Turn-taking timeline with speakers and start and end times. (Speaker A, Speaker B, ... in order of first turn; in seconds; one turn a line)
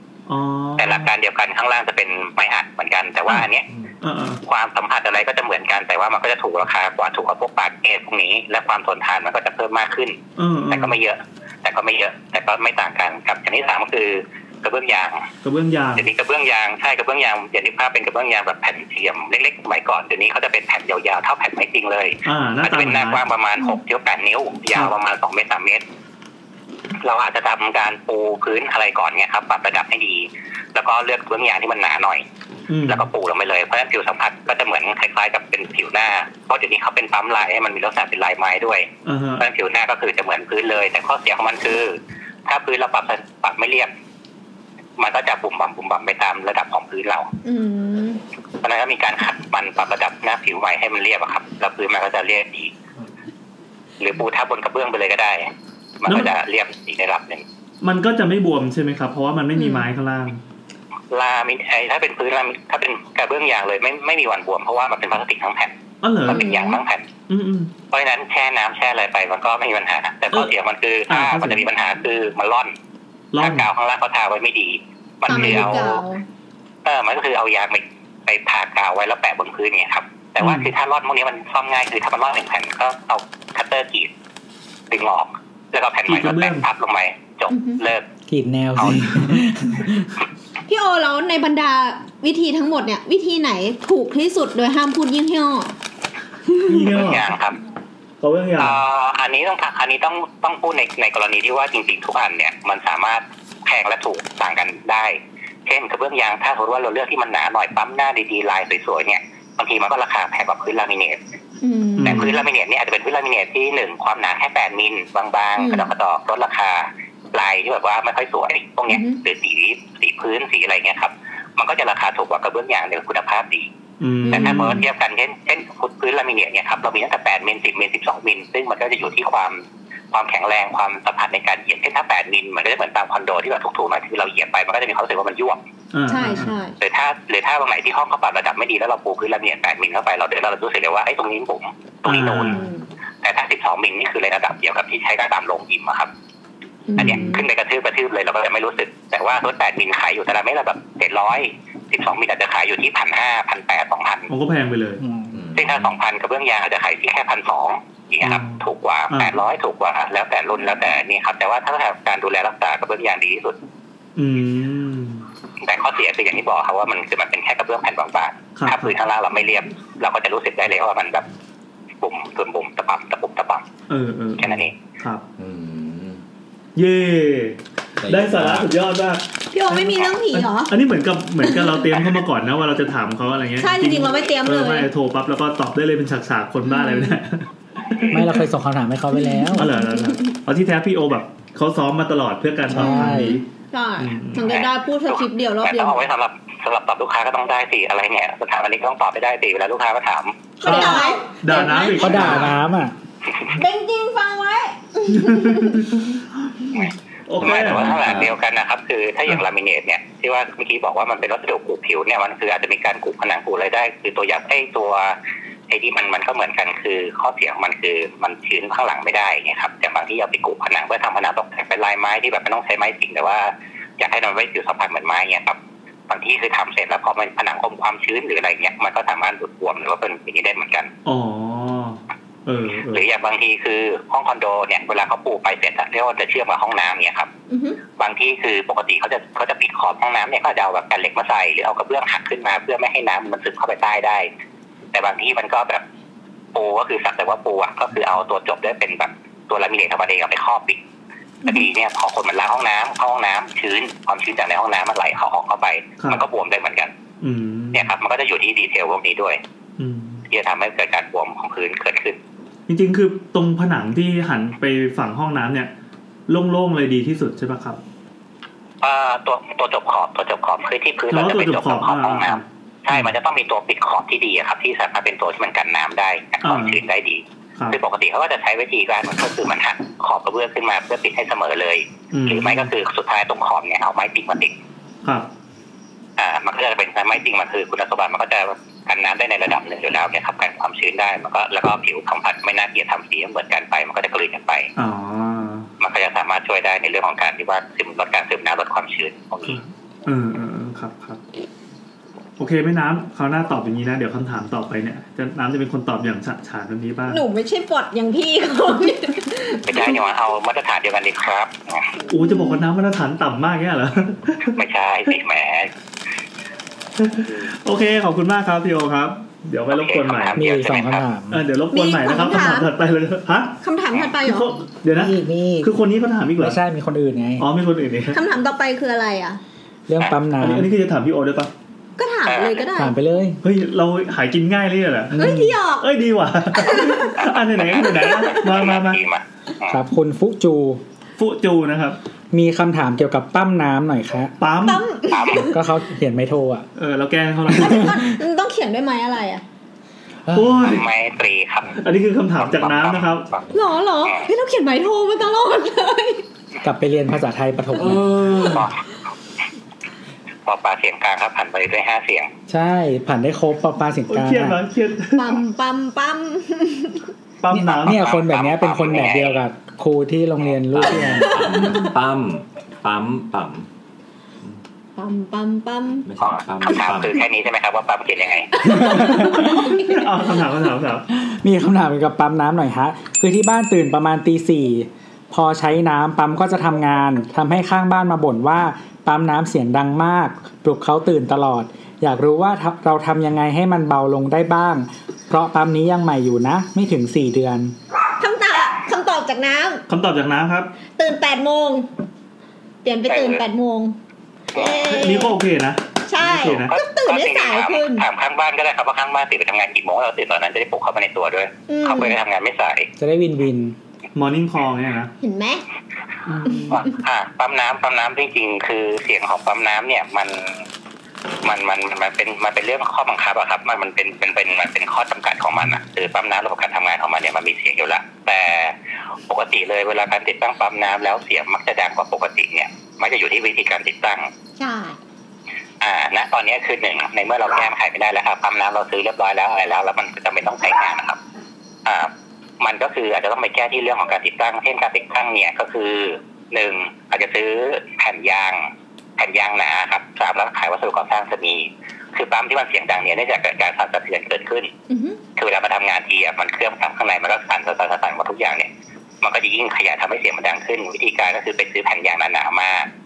Speaker A: 0.3-1.1
Speaker B: 0.8-3.7
Speaker A: 4.0-4.4
Speaker B: 4.4-15.3
Speaker A: 10.4-11.0
Speaker A: 15.4-16.1
Speaker B: 16.0-25.8
Speaker A: 22.2-23.2
Speaker B: 27.0-32.2
Speaker A: 32.7-33.1
Speaker B: 32.9-43.9
Speaker A: 39.1-39.5
Speaker B: 45.0-47.3
Speaker C: 47.5-48.2
Speaker B: 48.6-52.7
Speaker B: 54.0-57.5
Speaker A: 56.1-56.3
Speaker A: 57.8-60.4
Speaker C: 59.6-59.9
Speaker B: 61.1-65.8
Speaker A: 66.0-66.5
Speaker B: 66.3-67.1
Speaker C: 66.3-66.8
Speaker A: 67.3-67.7
Speaker B: 67.9-72.8
Speaker A: 71.1-71.7
Speaker A: 73.3-73.7
Speaker B: 73.4-76.0
Speaker A: 75.3-76.0
Speaker C: 75.3-76.2
Speaker B: 76.8-84.1
Speaker A: 80.4-80.7
Speaker B: 84.9-88.1
Speaker A: 86.1-86.7
Speaker C: 87.5-87.8
Speaker D: 88.3-90.1
Speaker B: 88.8-89.1
Speaker C: 90.7-95.7
Speaker A: 96.7-97.3
Speaker B: 96.9-97.6
Speaker A: 98.2-98.8
Speaker B: 98.6-111.2
Speaker C: 111.6-112.4
Speaker A: 112.0-112.3
Speaker B: 112.0-123.7
Speaker C: 115.6-115.9
Speaker C: 118.9-119.2
Speaker A: 124.0-124.8
Speaker C: 124.3-124.8
Speaker B: 124.3-135.6
Speaker A: 135.9-136.5
Speaker C: 136.1-136.8
Speaker B: 136.8-142.6
Speaker A: 142.1-142.6
Speaker C: 142.5-142.8
Speaker B: 143.2-146.1
Speaker C: 146.9-147.4
Speaker A: 147.0-147.2
Speaker B: 147.0-154.3
Speaker A: 154.3-155.0
Speaker D: 155.0-155.3
Speaker E: 155.3-155.9
Speaker B: 155.6-163.6
Speaker A: 158.2-159.3
Speaker A: 164.2-165.3
Speaker B: 165.6-171.2
Speaker A: 168.6-168.9
Speaker B: 172.0-173.6
Speaker A: 173.9-175.2
Speaker B: 174.4-174.7
Speaker E: 175.4-176.2
Speaker A: 176.8-188.3
Speaker E: 178.0-178.7
Speaker C: 179.5-180.7
Speaker C: 181.4-181.8
Speaker C: 183.6-184.9
Speaker C: 186.7-187.2
Speaker D: 188.1-189.7
Speaker C: 189.2-190.3
Speaker A: 189.6-193.4
Speaker D: 192.7-193.4
Speaker C: 192.7-196.0
Speaker A: 194.0-194.4
Speaker B: 194.5-200.5
Speaker C: 200.6-202.5
Speaker A: 200.6-202.6
Speaker D: 200.7-202.9
Speaker C: 203.5-205.9
Speaker A: 205.2-206.0
Speaker B: 206.7-215.2
Speaker A: 207.3-208.3
Speaker E: 207.6-208.3
Speaker B: 215.7-225.6
Speaker B: 226.1-230.9
Speaker A: 231.1-233.0
Speaker B: 232.9-237.3
Speaker C: 237.5-237.8
Speaker B: 238.0-244.3
Speaker B: 244.9-245.8
Speaker B: 246.5-250.8
Speaker B: 251.4-256.9
Speaker A: 257.2-257.9
Speaker B: 257.7-259.4
Speaker A: 259.8-260.2
Speaker B: 260.3-262.2
Speaker A: 262.7-265.7
Speaker A: 266.3-267.8
Speaker B: 268.8-284.6
Speaker A: 271.1-273.1
Speaker A: 276.4-276.8
Speaker A: 282.1-282.7
Speaker B: 286.2-294.7
Speaker A: 294.8-295.7
Speaker B: 295.8-299.6
Speaker A: 299.5-301.2
Speaker A: 302.4-307.2
Speaker C: 307.1-310.0
Speaker B: 309.7-311.9
Speaker A: 312.1-314.6
Speaker C: 312.1-312.6
Speaker B: 314.6-315.7
Speaker A: 317.0-320.4
Speaker B: 319.7-321.1
Speaker D: 320.4-321.4
Speaker A: 321.3-323.6
Speaker C: 321.7-322.7
Speaker C: 323.6-324.6
Speaker A: 324.2-326.6
Speaker D: 324.9-325.7
Speaker D: 326.4-327.5
Speaker A: 327.4-328.2
Speaker C: 328.1-329.4
Speaker D: 329.9-330.7
Speaker A: 330.4-331.5
Speaker C: 332.0-332.9
Speaker B: 332.3-332.7
Speaker D: 332.8-333.4
Speaker A: 333.4-339.0
Speaker C: 335.2-335.9
Speaker C: 336.6-337.1
Speaker B: 337.4-337.8
Speaker B: 338.3-339.8
Speaker D: 339.7-340.8
Speaker A: 341.2-342.0
Speaker D: 342.3-344.3
Speaker A: 344.4-344.9
Speaker C: 344.6-345.6
Speaker B: 345.1-345.5
Speaker D: 345.4-346.7
Speaker A: 346.8-348.0
Speaker C: 347.5-349.4
Speaker A: 350.3-350.9
Speaker B: 350.6-351.8
Speaker A: 351.8-353.3
Speaker B: 352.4-353.5
Speaker C: 353.5-356.2
Speaker D: 356.6-358.4
Speaker A: 357.9-358.6
Speaker B: 358.5-358.7
Speaker B: 360.4-362.3
Speaker D: 362.5-364.6
Speaker A: 364.1-365.4
Speaker C: 365.1-367.1
Speaker A: 367.4-368.0
Speaker D: 367.5-371.6
Speaker B: 367.9-369.4
Speaker E: 370.7-373.7
Speaker C: 371.1-371.9
Speaker C: 375.0-376.1
Speaker E: 376.1-377.2
Speaker B: 376.2-378.5
Speaker C: 378.6-380.1
Speaker D: 378.8-379.5
Speaker A: 379.0-381.1
Speaker D: 381.2-397.8
Speaker C: 398.2-399.8
Speaker A: 399.9-400.7
Speaker C: 400.9-401.9
Speaker C: 402.8-404.0
Speaker B: 403.1-403.4
Speaker B: 404.6-404.9
Speaker C: 404.6-405.4
Speaker A: 404.9-406.7
Speaker C: 406.1-408.1
Speaker B: 406.7-412.9
Speaker C: 411.7-412.2
Speaker D: 413.0-413.8
Speaker A: 414.2-415.1
Speaker C: 415.2-415.6
Speaker A: 416.3-416.8
Speaker B: 416.7-420.6
Speaker B: 421.4-428.8
Speaker B: 429.3-434.3
Speaker C: 434.6-435.0
Speaker B: 435.8-441.2
Speaker B: 441.9-454.7
Speaker C: 454.9-455.2
Speaker B: 455.4-458.7
Speaker B: 459.2-462.9